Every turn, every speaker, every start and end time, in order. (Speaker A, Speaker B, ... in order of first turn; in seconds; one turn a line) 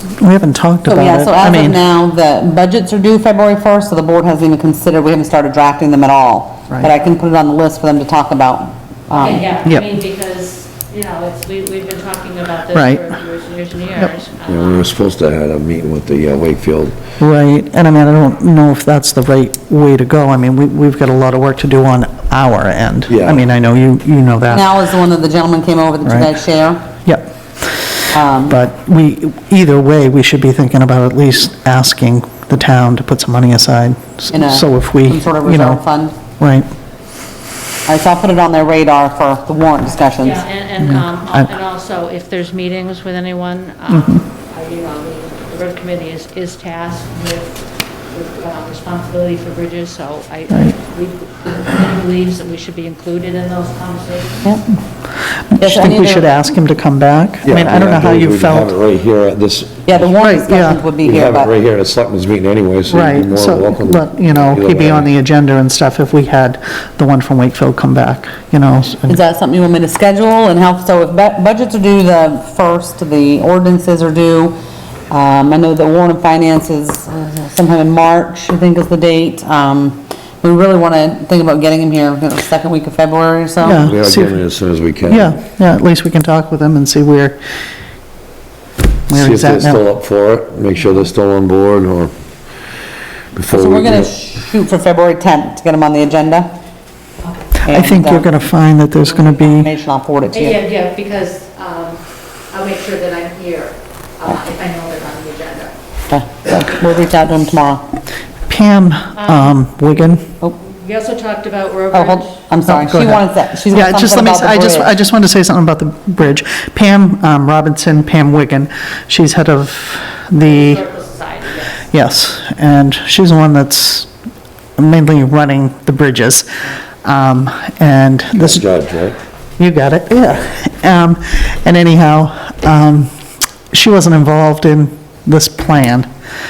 Speaker A: 0.2-1.8
Speaker B: 0.9-9.5
Speaker C: 9.1-14.9
Speaker A: 12.7-13.1
Speaker D: 14.5-17.0
Speaker A: 17.2-24.7
Speaker D: 23.1-23.4
Speaker B: 24.5-26.8
Speaker A: 26.1-26.3
Speaker A: 27.1-35.8
Speaker B: 28.1-28.6
Speaker B: 34.3-36.1
Speaker A: 36.4-36.7
Speaker B: 37.9-40.5
Speaker C: 40.1-54.5
Speaker A: 40.8-41.5
Speaker A: 55.4-58.7
Speaker B: 55.6-56.3
Speaker D: 57.4-60.1
Speaker B: 59.9-61.5
Speaker A: 60.2-60.8
Speaker D: 61.0-65.1
Speaker A: 62.9-69.2
Speaker B: 69.1-74.6
Speaker B: 75.1-83.8
Speaker A: 83.6-84.4
Speaker D: 83.8-85.4
Speaker A: 85.1-87.4
Speaker A: 89.1-89.8
Speaker D: 89.1-92.1
Speaker D: 93.3-94.1
Speaker B: 93.5-96.5
Speaker C: 97.2-97.5
Speaker B: 97.6-98.3
Speaker A: 97.7-99.7
Speaker B: 99.0-100.6
Speaker C: 100.3-105.8
Speaker B: 106.1-107.8
Speaker A: 108.5-110.3
Speaker C: 109.2-109.6
Speaker C: 110.4-112.4
Speaker B: 111.9-114.9
Speaker A: 112.7-120.8
Speaker C: 120.4-121.9
Speaker A: 121.9-124.1
Speaker A: 124.8-126.5
Speaker A: 127.0-128.7
Speaker D: 128.3-129.2
Speaker A: 129.6-133.1
Speaker A: 133.7-136.1